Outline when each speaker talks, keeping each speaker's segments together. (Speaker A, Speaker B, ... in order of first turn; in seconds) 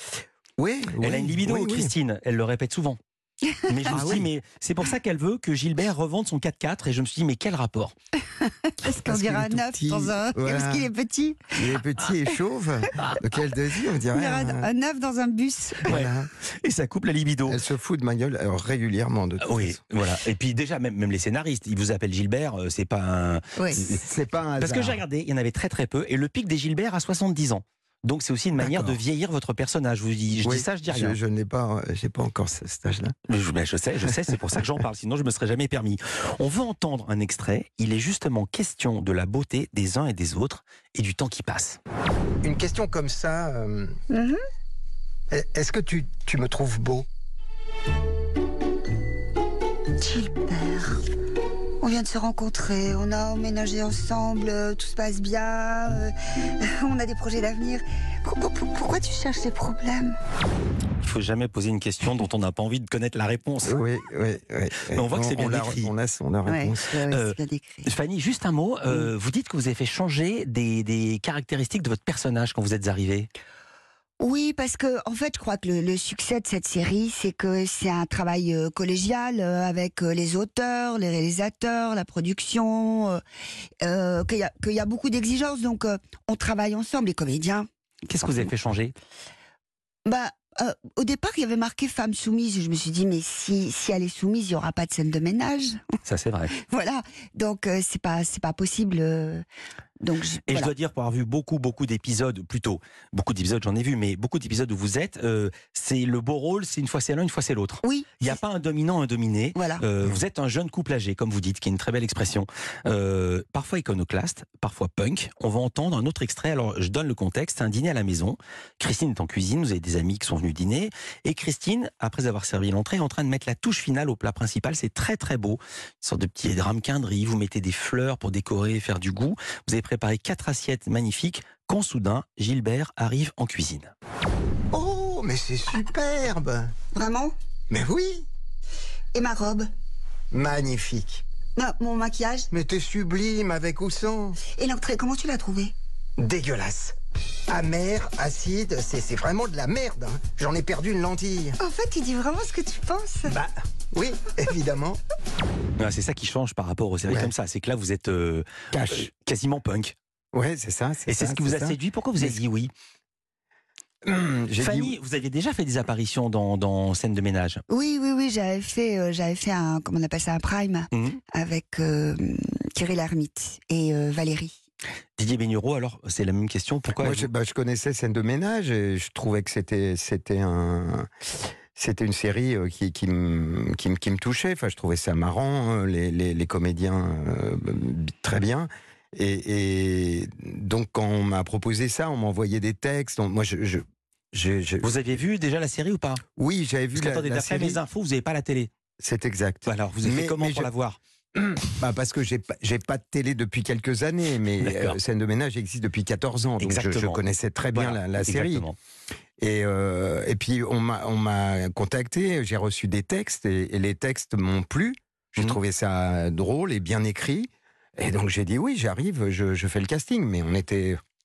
Speaker A: 0.6-1.9, 3.9-4.3, 9.0-10.9, 11.5-14.7, 15.8-16.3, 17.4-19.8, 23.8-25.0, 28.6-29.0, 30.4-33.1, 42.4-44.0, 45.3-47.0, 63.6-66.9, 134.7-136.7, 137.7-138.3, 140.3-141.2, 142.5-144.4, 146.2-146.9, 147.5-151.6, 153.2-155.0, 157.1-157.3, 158.7-159.1, 160.3-162.4, 164.0-164.9, 176.9-181.1, 181.7-194.9, 196.4-197.8, 199.0-200.7, 201.3-208.6, 209.4-221.0
Speaker B: 1.0-3.0, 3.6-7.9, 15.8-17.6, 19.4-24.0, 24.6-31.2, 33.3-41.8, 61.0-63.8, 64.9-65.9, 67.1-73.3, 88.0-88.9, 96.0-96.5, 100.5-133.9, 155.8-159.9, 161.1-162.7, 164.6-167.6, 170.9-171.2, 175.2-177.3, 194.8-196.2, 196.9-198.7, 199.6-201.0, 204.6-205.0, 206.6-207.2, 207.7-208.8
Speaker C: 8.4-11.7, 14.1-16.0, 23.6-23.8, 44.1-44.4, 50.0-51.0, 51.8-60.1, 66.5-67.9, 74.2-83.2, 83.8-87.7, 90.0-95.8, 96.5-99.4, 100.0-100.7, 107.8-108.4, 109.5-109.8, 136.9-137.3, 139.1-139.7, 141.6-142.5, 144.4-145.7, 151.6-153.4, 167.7-174.5